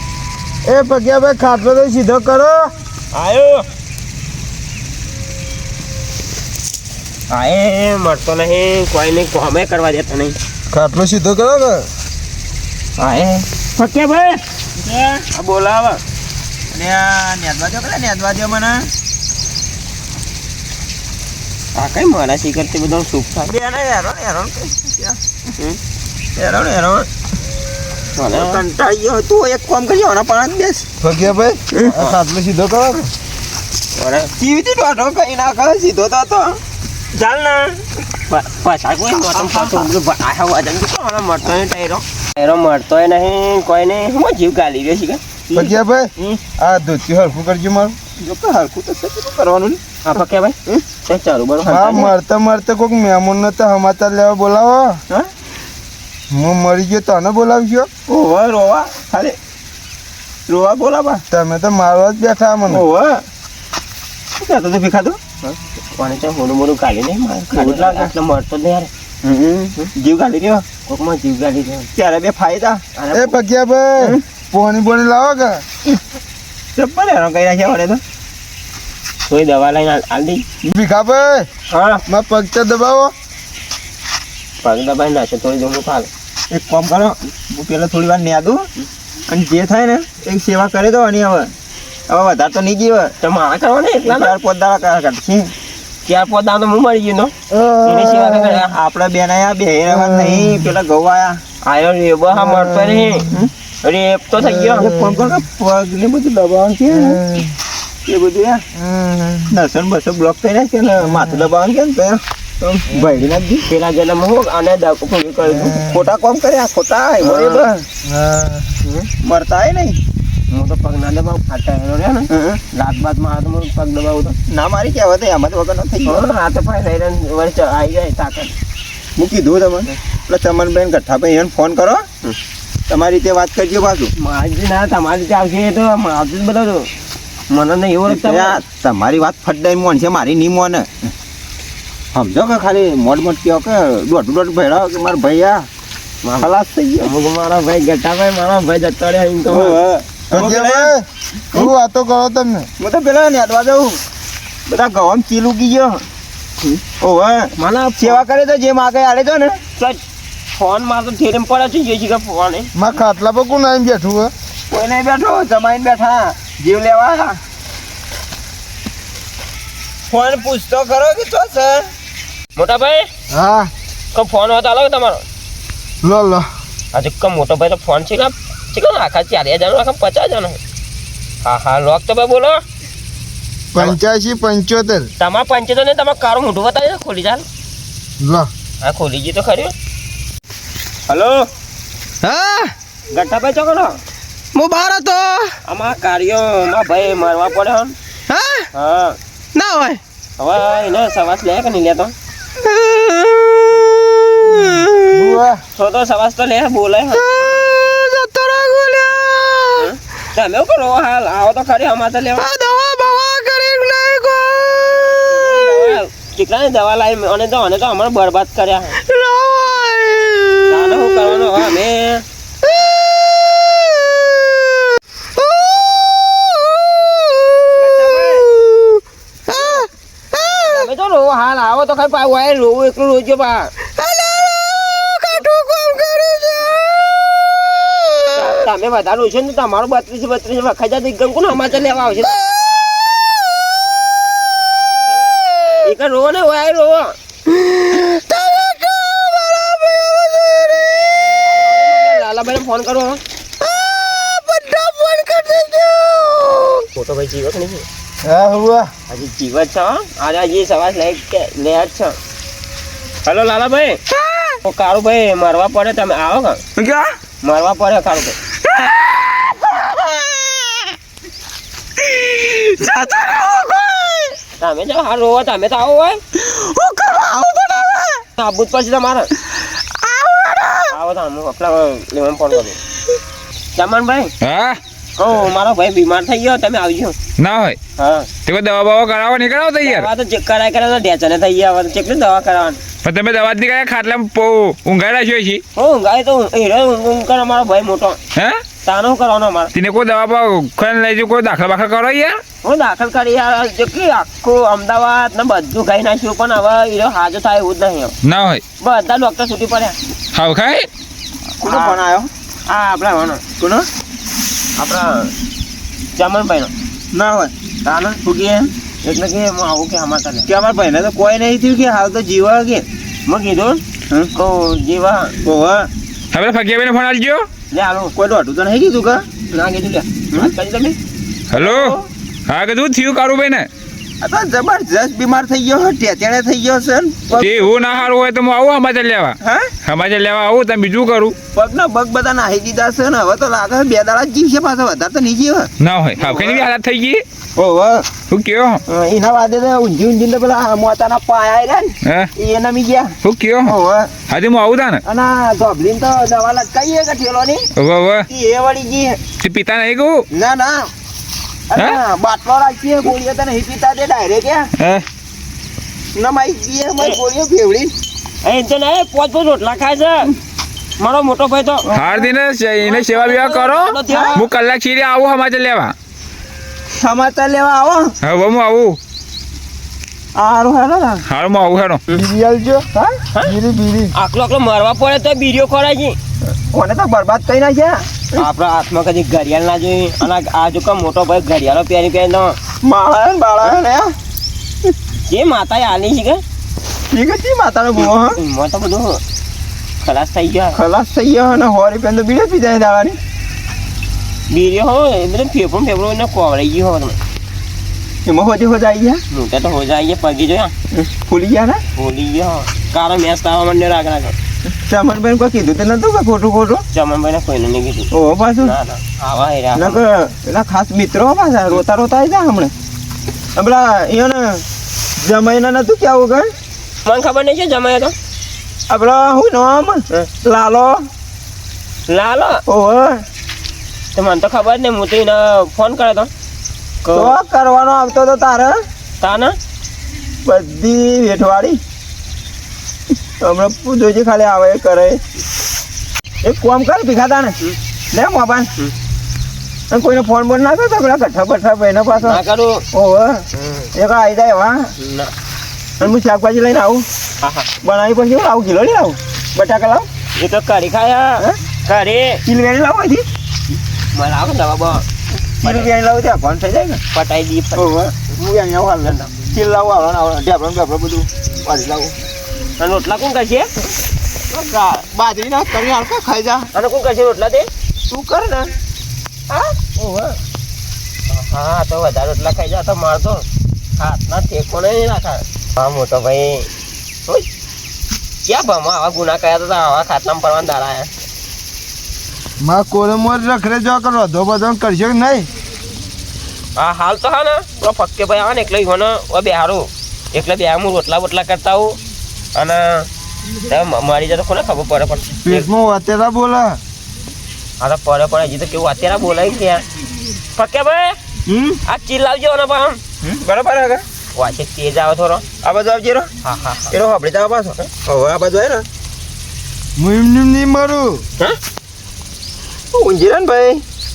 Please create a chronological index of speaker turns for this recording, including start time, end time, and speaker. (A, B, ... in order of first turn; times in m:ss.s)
0:00.7-0:02.7 A
0:03.1-0:03.7 B
0:07.3-0:10.4 B
0:10.7-0:11.9 A
0:13.0-0:13.4 C
0:13.8-0:16.0 B
0:16.7-0:18.9 C
0:21.8-0:23.5 B
0:23.5-0:25.2 C
0:26.4-0:27.1 C
0:28.2-0:28.6 B
0:28.3-0:30.9 C
0:31.0-0:33.1 A
0:31.8-0:32.2 B
0:34.0-0:34.3 B
0:34.4-0:36.6 C
0:37.1-0:45.8 B
0:39.2-0:39.9 C
0:45.5-0:48.0 A
0:46.2-0:46.5 C
0:48.1-0:49.8 C
0:50.0-0:52.1 B
0:51.6-0:55.0 A
0:56.3-0:57.9 A
0:58.1-0:59.4 C
1:00.5-1:01.2 C
1:01.3-1:02.8 A
1:02.7-1:03.3 C
1:04.4-1:05.2 C
1:05.4-1:08.9 B
1:07.5-1:08.1 C
1:09.2-1:10.6 C
1:10.9-1:11.9 B
1:12.0-1:12.8 C
1:13.0-1:13.3 B
1:13.1-1:15.6 A
1:16.8-1:18.0 C
1:19.3-1:20.4 B
1:20.6-1:21.5 A
1:21.7-1:22.0 B
1:22.1-1:23.1 A
1:24.6-1:26.1 B
1:26.5-1:28.7 C
1:29.3-1:31.5 C
1:32.1-1:33.1 C
1:33.2-1:34.4 B
1:34.0-1:35.5 C
1:36.1-1:37.3 B
1:37.5-1:38.4 A
1:37.8-1:38.7 B
1:38.4-1:41.4 C
1:39.9-1:40.7 A
1:41.6-1:43.3 B
1:42.3-1:43.5 A
1:43.8-1:44.9 B
1:44.7-1:47.5 C
1:44.8-1:45.2 A
1:46.9-1:47.2 A
1:48.1-1:48.6 C
1:48.8-1:49.5 A
1:49.5-1:53.6 C
1:51.1-1:51.4 A
1:53.7-1:55.9 B
1:55.7-1:57.8 C
1:57.2-1:57.7 B
1:58.0-1:58.8 A
1:58.8-1:59.1 B
1:59.2-2:00.0 C
2:00.5-2:04.4 B
2:02.3-2:02.6 C
2:04.5-2:06.2 C
2:06.0-2:08.5 B
2:09.2-2:12.1 C
2:12.9-2:14.1 C
2:14.2-2:16.9 B
2:17.5-2:18.6 B
2:18.1-2:20.9 C
2:22.1-2:25.7 C
2:26.2-2:26.5 B
2:26.4-2:27.1 C
2:27.0-2:29.8 B
2:29.5-2:30.9 C
2:30.3-2:32.7 A
2:32.8-2:34.0 C
2:34.7-2:36.0 C
2:36.6-2:39.6 C
2:37.6-2:38.2 B
2:40.6-2:42.7 B
2:42.8-2:44.3 A
2:44.7-2:47.4 C
2:50.1-2:51.9 C
2:52.6-2:53.1 B
2:53.3-2:53.7 A
2:54.1-2:55.2 B
2:56.0-2:56.5 A
2:56.9-3:00.6 B
3:01.4-3:02.6 B
3:03.7-3:05.1 A
3:05.2-3:07.4 B
3:08.2-3:08.5 A
3:08.8-3:09.7 B
3:11.1-3:11.5 B
3:12.2-3:12.7 D
3:13.1-3:14.0 B
3:14.5-3:15.6 D
3:15.7-3:18.0 B
3:18.3-3:18.7 D
3:18.7-3:19.2 B
3:19.6-3:20.0 D
3:20.4-3:22.1 B
3:22.6-3:25.2 D
3:24.5-3:25.6 A
3:25.8-3:27.2 B
3:27.1-3:29.9 D
3:29.8-3:32.4 B
3:32.4-3:36.0 D
3:35.3-3:39.0 B
3:39.0-3:41.4 D
3:40.7-3:42.2 B
3:42.6-3:44.5 D
3:45.4-3:50.9 D
3:47.7-3:48.5 B
3:49.6-3:49.8 B
3:50.7-3:53.7 B
3:53.9-3:58.6 D
3:58.3-4:02.4 B
4:02.3-4:03.6 D
4:05.4-4:05.9 D
4:05.8-4:07.2 B
4:07.5-4:11.4 D
4:11.4-4:13.2 B
4:13.6-4:16.9 D
4:17.0-4:17.9 B
4:18.2-4:18.9 A
4:19.1-4:22.2 B
4:23.2-4:24.0 B
4:24.6-4:26.6 B
4:26.8-4:27.2 C
4:27.4-4:28.4 B
4:29.5-4:30.9 C
4:32.1-4:34.3 C
4:34.6-4:36.2 B
4:36.4-4:38.2 C
4:38.4-4:39.3 B
4:40.0-4:40.8 C
4:40.9-4:42.8 B
4:43.8-4:44.3 B
4:44.4-4:44.8 E
4:45.2-4:47.2 B
4:47.4-4:47.8 E
4:48.0-4:48.3 B
4:48.5-4:50.1 E
4:49.8-4:52.8 B
4:53.0-4:55.6 E
4:55.8-4:58.2 B
4:58.4-4:58.6 E
4:58.8-4:59.7 B
4:59.7-5:02.4 E
5:02.6-5:08.2 B
5:08.2-5:08.6 E
5:08.8-5:10.0 B
5:10.3-5:10.9 E
5:11.6-5:12.3 C
5:11.6-5:12.0 B
5:12.7-5:13.4 B
5:13.6-5:13.9 C
5:14.8-5:15.3 B
5:16.2-5:16.7 B
5:17.1-5:17.5 C
5:17.8-5:20.5 B
5:20.5-5:22.8 C
5:23.3-5:23.8 B
5:24.3-5:25.4 B
5:25.4-5:25.9 C
5:26.3-5:27.5 E
5:27.7-5:28.1 B
5:28.2-5:29.3 C
5:29.5-5:31.0 B
5:31.5-5:32.0 E
5:31.6-5:32.0 B
5:32.5-5:33.7 E
5:34.2-5:37.7 C
5:37.4-5:41.4 E
5:39.4-5:39.7 C
5:41.5-5:46.7 C
5:45.8-5:47.2 E
5:47.6-5:48.1 C
5:48.3-5:48.8 E
5:48.9-5:54.1 C
5:52.0-5:52.3 E
5:53.2-5:53.8 E
5:54.3-5:55.0 E
5:55.0-5:57.7 C
5:57.8-5:58.3 E
5:58.3-5:59.2 C
5:59.4-6:00.3 E
6:00.3-6:00.9 C
6:01.7-6:04.7 C
6:04.8-6:05.0 E
6:06.2-6:07.9 C
6:08.4-6:10.3 B
6:11.0-6:11.9 B
6:11.9-6:12.3 C
6:11.9-6:15.9 E
6:12.8-6:14.4 B
6:14.1-6:14.4 C
6:17.0-6:18.2 C
6:18.2-6:19.0 E
6:20.4-6:21.2 C
6:21.3-6:22.0 E
6:22.1-6:22.9 A
6:23.4-6:24.1 A
6:24.1-6:26.2 B
6:26.5-6:28.4 C
6:28.4-6:32.6 B
6:32.8-6:34.1 C
6:35.3-6:36.4 B
6:37.1-6:38.4 C
6:38.4-6:39.2 B
6:40.0-6:40.8 B
6:40.8-6:43.2 C
6:44.5-6:47.2 B
6:48.3-6:49.2 C
6:49.3-6:50.7 B
6:50.9-6:51.8 C
6:52.0-6:54.4 B
6:54.7-6:56.8 C
6:56.9-7:00.0 B
6:58.1-6:58.7 C
6:59.8-7:02.7 C
7:03.6-7:04.6 C
7:05.2-7:06.5 C
7:07.0-7:08.2 B
7:08.9-7:11.1 C
7:12.1-7:12.6 B
7:12.7-7:13.2 C
7:14.2-7:16.3 B
7:17.0-7:17.4 B
7:17.1-7:18.9 C
7:19.2-7:19.6 B
7:20.4-7:21.8 C
7:23.4-7:25.2 C
7:26.4-7:27.6 C
7:28.1-7:28.7 C
7:29.9-7:32.4 C
7:32.2-7:32.8 B
7:32.9-7:34.9 C
7:33.6-7:33.9 B
7:35.0-7:35.3 B
7:36.0-7:37.1 C
7:37.4-7:37.7 B
7:37.8-7:40.1 C
7:40.4-7:42.4 B
7:42.4-7:43.3 C
7:44.1-7:45.1 B
7:45.6-7:45.9 B
7:45.6-7:47.0 C
7:47.1-7:47.9 B
7:47.8-7:52.2 C
7:52.8-7:53.7 B
7:54.5-7:56.7 C
7:56.7-7:57.7 B
7:58.1-7:58.7 C
8:00.0-8:00.3 C
8:01.3-8:03.5 B
8:04.0-8:06.7 B
8:08.5-8:11.1 B
8:12.6-8:15.5 A
8:16.8-8:22.0 B
8:22.6-8:23.1 B
8:23.7-8:25.7 B
8:25.4-8:26.8 A
8:27.8-8:29.8 B
8:30.6-8:31.2 B
8:31.5-8:31.8 A
8:31.9-8:33.0 B
8:33.2-8:34.0 C
8:34.4-8:35.5 B
8:35.6-8:36.3 C
8:36.4-8:37.0 B
8:36.9-8:38.9 C
8:40.0-8:41.2 A
8:42.9-8:43.8 C